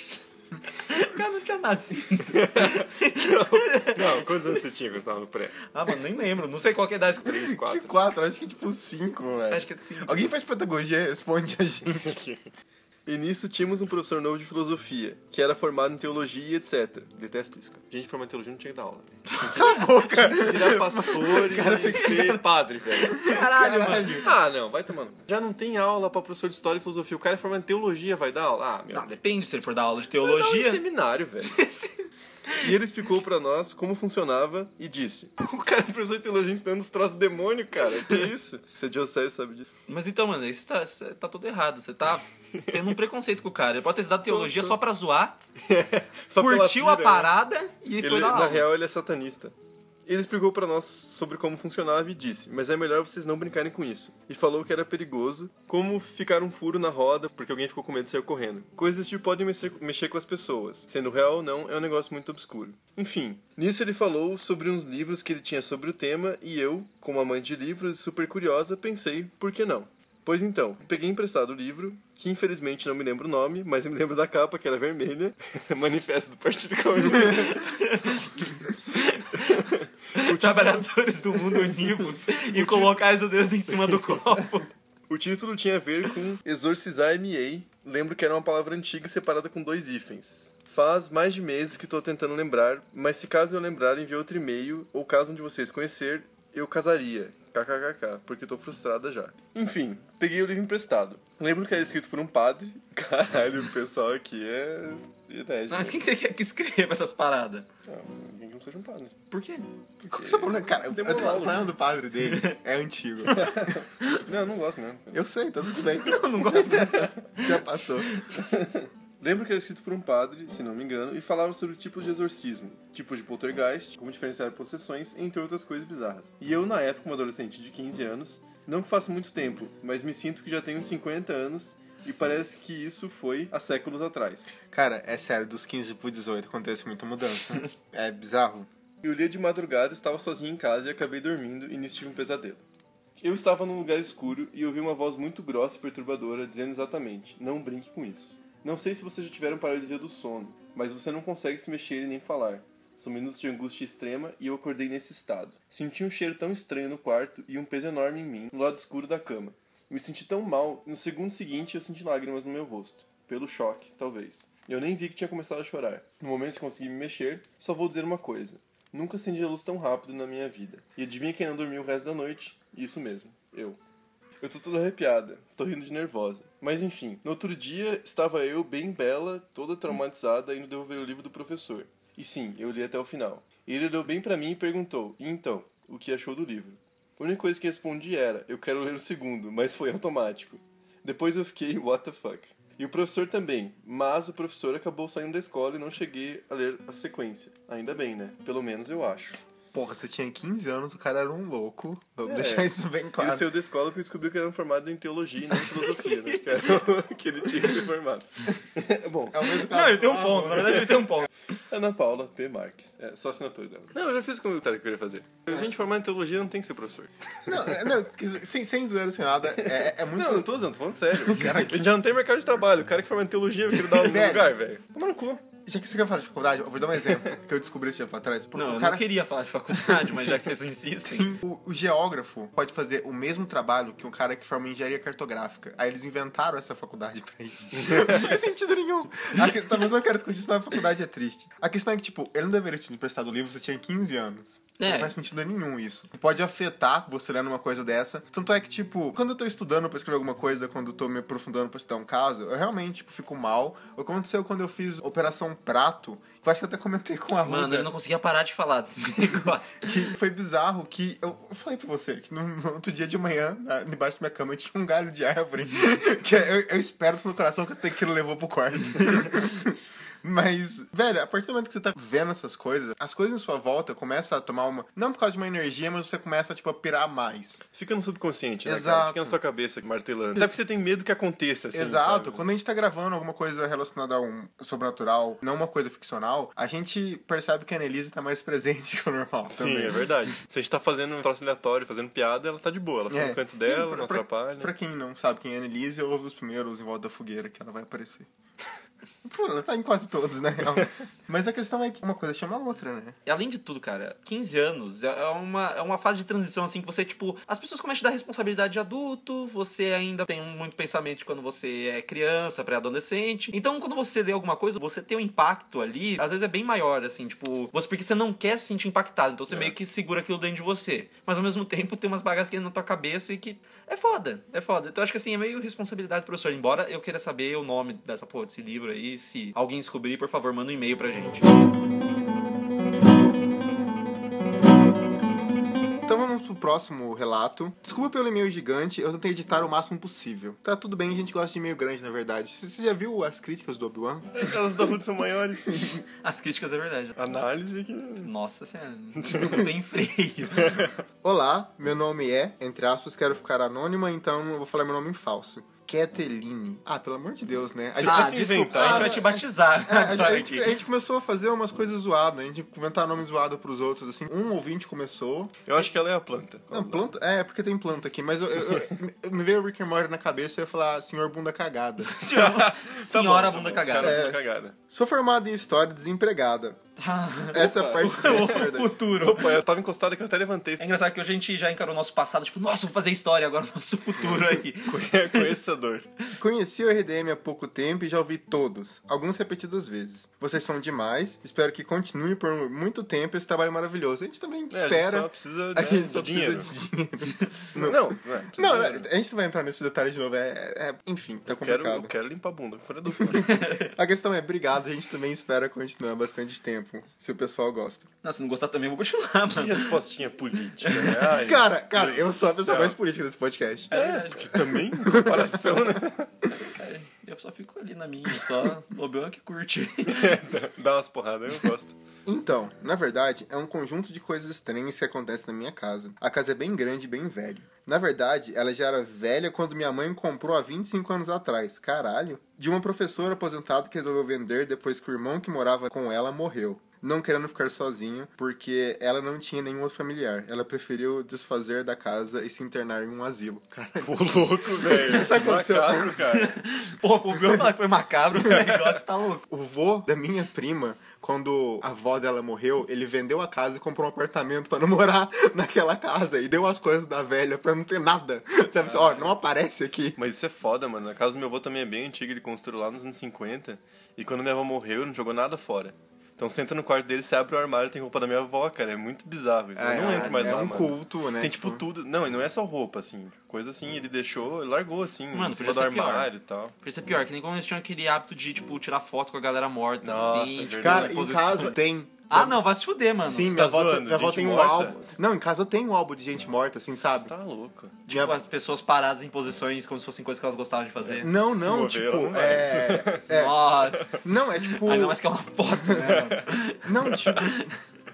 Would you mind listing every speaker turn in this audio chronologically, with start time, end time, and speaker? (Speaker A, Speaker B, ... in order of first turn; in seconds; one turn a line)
Speaker A: 0.8-4.3
Speaker B: 2.3-5.6
Speaker A: 5.7-7.5
Speaker B: 7.2-8.0
Speaker C: 7.3-12.2
Speaker A: 9.5-10.3
Speaker B: 11.9-12.4
Speaker B: 13.1-23.2
Speaker A: 19.3-19.9
Speaker C: 19.4-22.4
Speaker A: 21.9-22.3
Speaker A: 23.1-24.3
Speaker C: 23.1-24.3
Speaker B: 24.2-29.1
Speaker A: 28.9-30.8
Speaker B: 30.2-31.6
Speaker A: 31.6-31.9
Speaker B: 32.6-39.7
Speaker A: 39.9-45.4
Speaker B: 42.5-42.8
Speaker B: 44.3-44.8
Speaker B: 45.6-47.3
Speaker A: 46.4-48.7
Speaker B: 48.0-49.5
Speaker B: 50.1-77.8
Speaker A: 77.2-84.7
Speaker B: 79.4-80.9
Speaker B: 81.5-81.8
Speaker B: 82.3-83.0
Speaker B: 83.7-84.1
Speaker B: 85.1-106.0
Speaker A: 105.7-107.7
Speaker B: 107.9-109.2
Speaker A: 109.3-109.7
Speaker C: 110.1-113.7
Speaker B: 110.1-111.7
Speaker A: 112.2-112.6
Speaker B: 113.3-115.2
Speaker A: 113.3-114.2
Speaker C: 115.1-118.1
Speaker A: 115.9-118.2
Speaker B: 118.3-134.5
Speaker C: 134.7-138.7
Speaker B: 139.0-142.6
Speaker B: 143.2-173.8
Speaker B: 174.4-199.4
Speaker C: 199.7-203.5
Speaker B: 202.3-209.6
Speaker A: 206.1-206.6
Speaker C: 209.3-210.8
Speaker A: 209.7-211.3
Speaker B: 210.5-211.1
Speaker B: 211.7-217.9
Speaker C: 217.5-220.5
Speaker B: 219.6-225.4
Speaker C: 221.1-221.9
Speaker C: 223.9-224.5
Speaker C: 225.6-229.1
Speaker A: 228.5-231.3
Speaker C: 229.7-230.2
Speaker C: 231.1-257.9
Speaker A: 244.8-245.1
Speaker A: 257.4-259.9
Speaker C: 259.8-277.6
Speaker B: 277.7-282.4
Speaker C: 278.6-279.4
Speaker C: 281.7-290.0
Speaker B: 289.5-294.7
Speaker C: 293.1-298.3
Speaker C: 299.2-303.2
Speaker A: 303.3-331.5
Speaker B: 319.5-319.7
Speaker C: 336.1-344.6
Speaker B: 344.4-346.0
Speaker A: 346.2-347.2
Speaker B: 347.2-348.3
Speaker A: 348.2-350.9
Speaker B: 349.2-349.7
Speaker B: 350.6-350.9
Speaker C: 351.2-365.5
Speaker B: 357.9-359.3
Speaker A: 358.0-360.8
Speaker B: 365.7-367.1
Speaker C: 366.7-372.1
Speaker A: 372.1-374.2
Speaker B: 372.3-374.8
Speaker C: 374.0-376.8
Speaker A: 377.0-379.6
Speaker C: 377.5-378.9
Speaker B: 377.6-380.9
Speaker A: 380.8-385.6
Speaker B: 384.2-386.1
Speaker C: 386.4-402.1
Speaker B: 394.7-396.7
Speaker B: 397.8-399.1
Speaker B: 401.5-403.6
Speaker C: 403.2-408.1
Speaker A: 403.4-403.9
Speaker A: 408.2-409.9
Speaker B: 409.5-413.0
Speaker A: 410.8-411.3
Speaker C: 411.4-413.9
Speaker A: 413.9-414.6
Speaker B: 413.9-416.3
Speaker C: 414.8-415.9
Speaker A: 416.5-420.4
Speaker B: 420.1-422.0
Speaker C: 422.3-446.2
Speaker B: 444.0-446.6
Speaker A: 446.3-449.4
Speaker C: 449.5-460.2
Speaker A: 458.9-459.3
Speaker B: 460.2-476.7
Speaker C: 469.8-471.8
Speaker A: 470.0-470.7
Speaker A: 475.3-476.3
Speaker A: 476.8-481.8
Speaker B: 480.0-481.2
Speaker C: 480.8-482.6
Speaker A: 482.3-483.5
Speaker C: 483.2-487.3
Speaker B: 483.4-485.0
Speaker B: 486.9-488.0
Speaker C: 488.1-488.4
Speaker A: 488.1-491.3
Speaker B: 491.1-494.2
Speaker C: 491.2-495.2
Speaker A: 493.3-497.7
Speaker C: 495.9-496.2
Speaker B: 496.0-496.5
Speaker C: 496.8-497.7